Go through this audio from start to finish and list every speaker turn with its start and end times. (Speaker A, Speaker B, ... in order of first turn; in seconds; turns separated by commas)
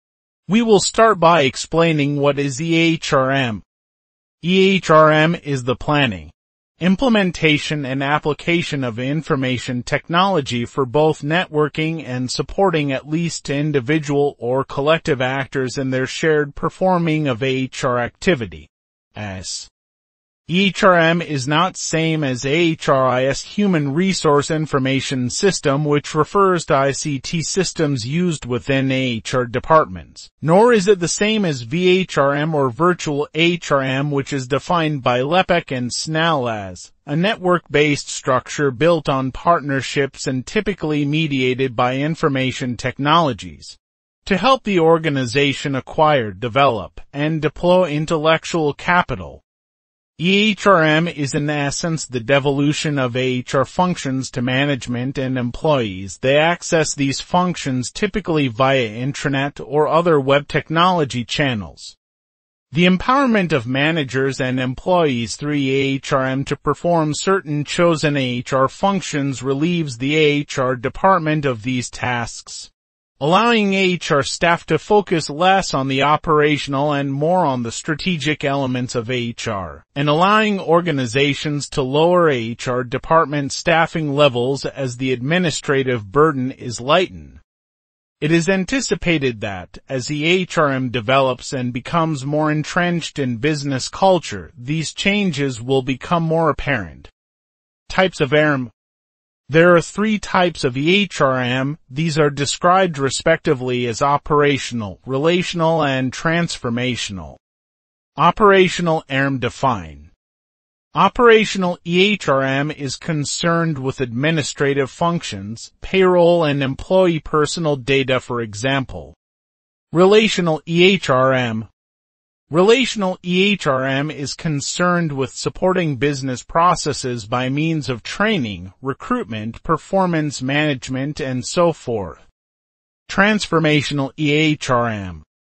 Speaker A: 0.5-3.6, Speaker A: 4.4-19.7, Speaker A: 20.5-49.4, Speaker A: 50.2-62.0, Speaker A: 62.7-87.4, Speaker A: 88.2-97.1, Speaker A: 97.9-98.7, Speaker A: 99.5-107.4, Speaker A: 108.2-110.1, Speaker A: 110.9-119.2, Speaker A: 119.9-121.7, Speaker A: 122.5-132.3, Speaker A: 133.1-135.2